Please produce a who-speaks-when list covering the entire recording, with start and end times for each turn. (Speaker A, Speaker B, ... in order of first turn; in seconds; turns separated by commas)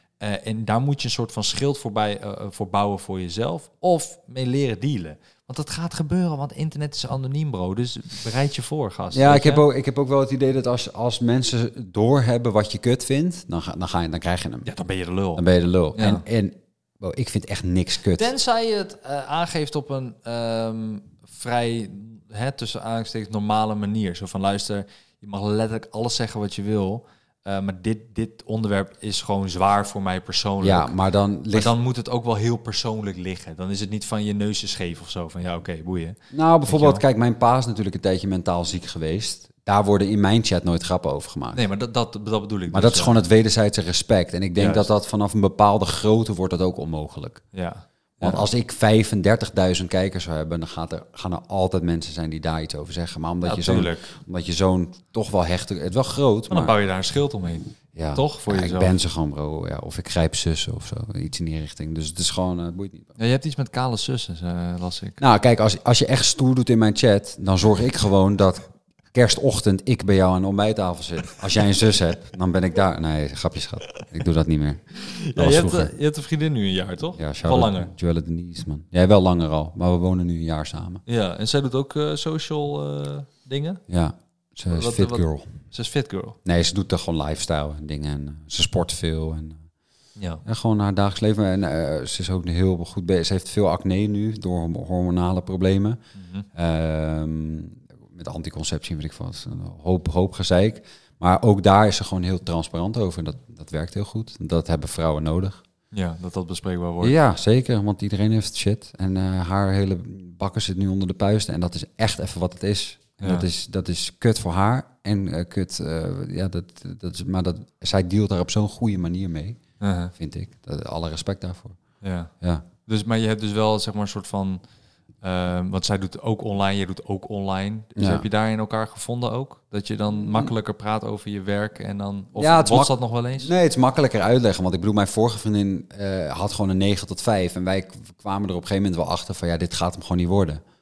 Speaker A: 0.2-9.6, Speaker B: 9.1-14.7, Speaker A: 14.6-15.4, Speaker B: 15.3-18.3, Speaker A: 15.9-16.2, Speaker A: 18.1-30.9, Speaker B: 30.6-31.7, Speaker A: 31.5-37.0, Speaker B: 36.3-41.6, Speaker A: 41.5-43.2, Speaker B: 42.7-47.4, Speaker A: 44.6-44.9, Speaker A: 47.5-48.5, Speaker B: 48.2-56.7, Speaker A: 53.4-54.1, Speaker A: 56.5-59.0, Speaker B: 57.9-63.1, Speaker A: 63.2-65.2, Speaker B: 65.2-74.8, Speaker A: 75.0-77.9, Speaker B: 75.3-75.9, Speaker B: 77.2-81.0, Speaker A: 81.0-83.8, Speaker B: 83.9-85.5, Speaker A: 84.7-86.4, Speaker B: 86.4-89.6, Speaker A: 90.2-90.4, Speaker B: 90.4-96.0, Speaker A: 96.2-96.5, Speaker B: 96.5-105.6, Speaker A: 105.9-107.1, Speaker B: 107.0-119.6, Speaker A: 113.2-113.5, Speaker A: 119.8-120.1, Speaker B: 120.2-121.8, Speaker A: 122.0-122.3, Speaker A: 122.8-124.6, Speaker A: 125.2-133.5, Speaker B: 128.0-128.2, Speaker B: 130.1-130.5, Speaker B: 132.4-140.6